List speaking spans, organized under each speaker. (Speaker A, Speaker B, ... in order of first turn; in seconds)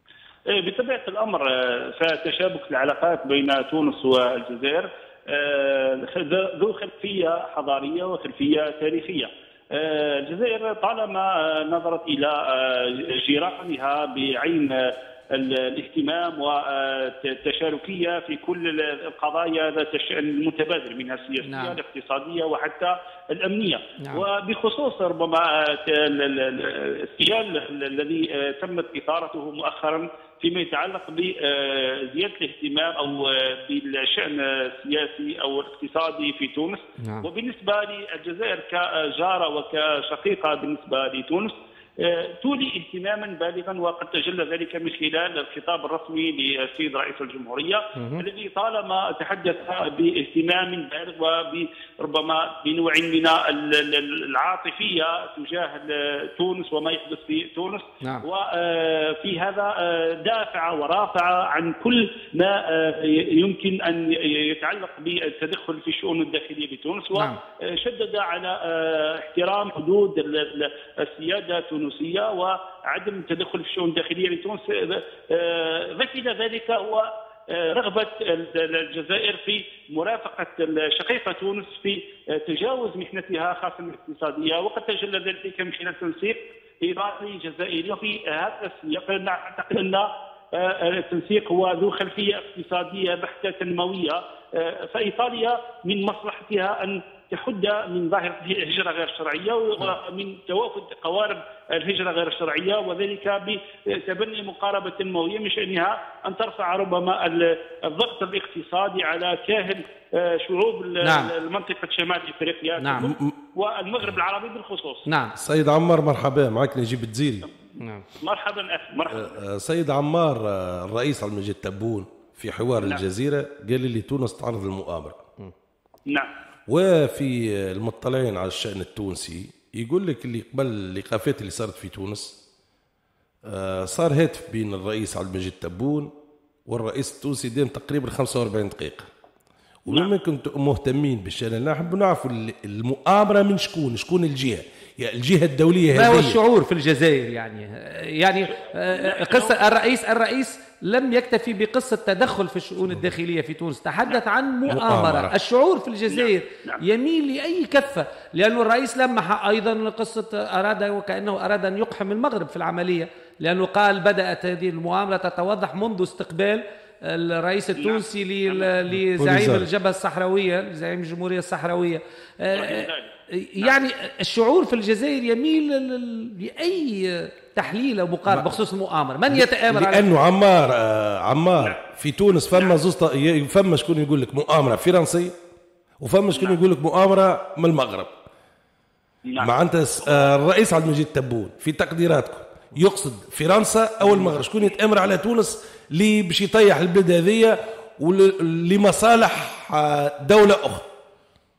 Speaker A: 0.5-115.0, 118.2-119.4, 148.8-149.7, 154.1-154.8, 156.1-156.8, 167.8-168.8, 172.5-173.8, 182.5-182.8, 186.3-186.6, 189.3-190.3
Speaker B: 21.4-21.8, 24.0-24.2, 37.0-37.3, 48.0-48.2, 111.0-111.3, 112.8-113.1, 115.1-115.3, 117.8-118.1, 145.9-180.2
Speaker C: 113.0-113.3, 115.4-117.5, 119.1-125.2, 126.7-132.4, 133.5-136.1, 136.7-139.1, 139.8-146.4, 154.7-155.3, 169.2-169.7, 179.3-185.3, 186.0-188.2, 189.4-200.9